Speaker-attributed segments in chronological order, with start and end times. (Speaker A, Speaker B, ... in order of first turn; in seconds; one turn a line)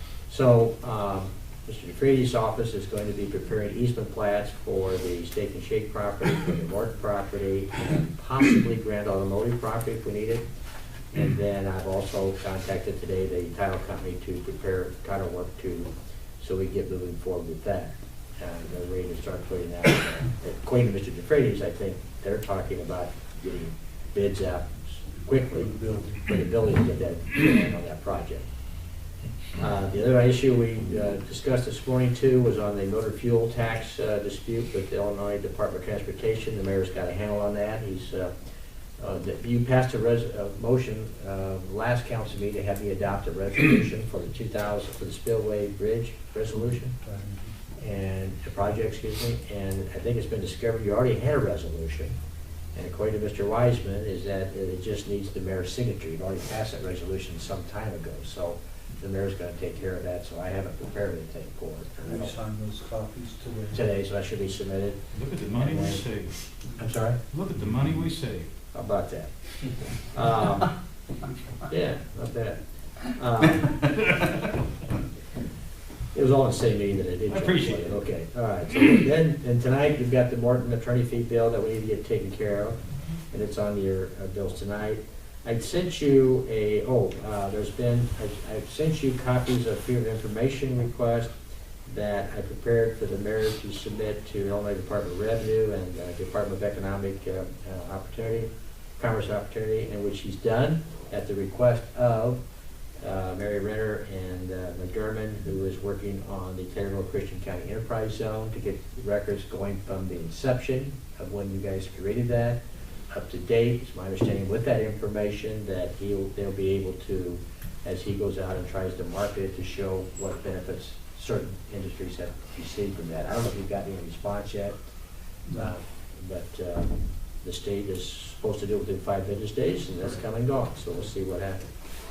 Speaker A: 0.3-10.4
Speaker A: 11.1-25.7
Speaker B: 25.6-26.2
Speaker A: 26.3-28.5
Speaker A: 29.6-38.3
Speaker A: 39.0-47.0
Speaker B: 47.0-47.5
Speaker A: 47.8-52.1
Speaker A: 52.7-62.4
Speaker B: 62.0-63.8
Speaker A: 63.7-65.0
Speaker C: 65.1-66.3
Speaker A: 65.5-66.0
Speaker A: 66.8-67.2
Speaker C: 67.3-68.5
Speaker A: 68.7-70.7
Speaker A: 71.7-73.9
Speaker A: 76.1-82.8
Speaker C: 77.4-77.7
Speaker A: 83.3-91.3
Speaker A: 91.9-102.4
Speaker A: 103.0-124.8
Speaker A: 125.5-131.7